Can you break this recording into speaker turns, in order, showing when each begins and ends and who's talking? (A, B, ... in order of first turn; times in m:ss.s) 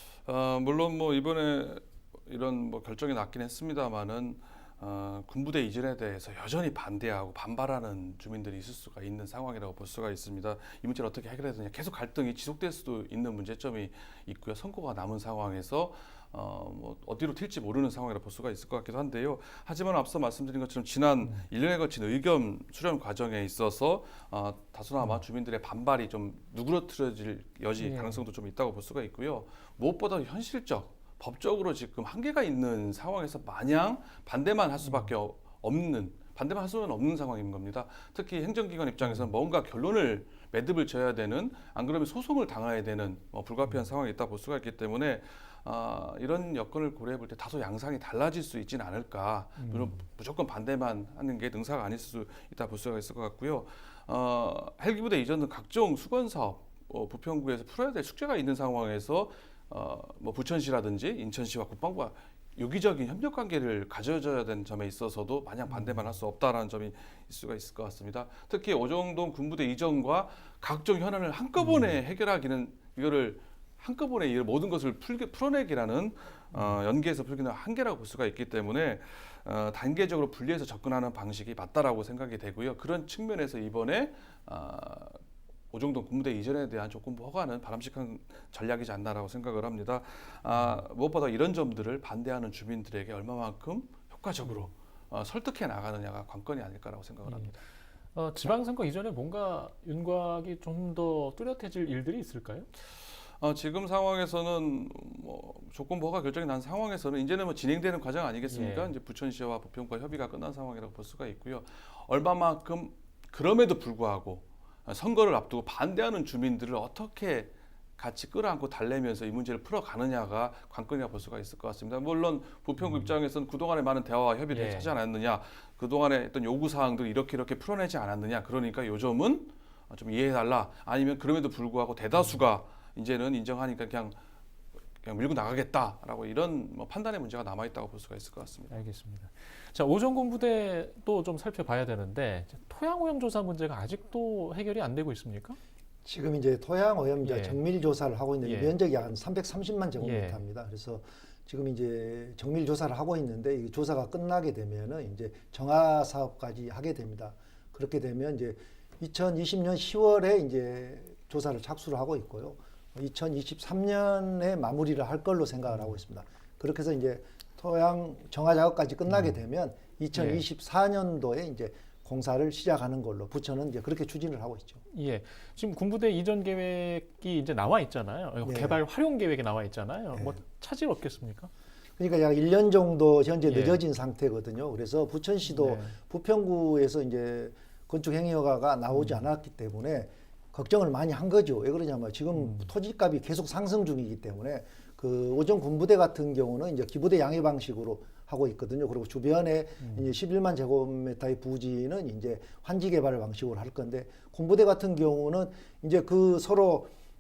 0:00.3-1:25.2 A
0:27.8-0:28.2 B
0:34.8-0:35.1 B
0:39.0-0:39.3 B
0:49.6-0:50.0 B
1:05.7-1:06.1 B
1:11.6-1:12.0 B
1:16.5-1:16.8 B
1:25.7-1:37.6 A
1:30.5-1:30.8 B
1:37.2-1:37.5 B
1:38.2-1:42.7 B
1:43.4-2:14.2 A
1:48.4-1:48.9 B
2:02.8-2:03.1 B
2:04.5-2:04.9 B
2:12.2-2:12.4 B
2:15.0-2:18.7 A
2:18.7-2:25.6 B
2:26.0-2:54.8 C
2:27.2-2:27.6 B
2:28.4-2:28.8 B
2:30.0-2:30.4 B
2:45.7-2:46.0 B
2:49.1-2:49.4 B
2:50.1-2:50.4 B
2:54.9-3:01.5 B
2:58.4-2:58.8 C
3:00.1-3:00.4 C
3:02.0-3:26.9 C
3:03.4-3:03.8 B
3:05.4-3:06.0 B
3:08.9-3:09.3 B
3:12.4-3:12.7 B
3:19.8-3:20.1 B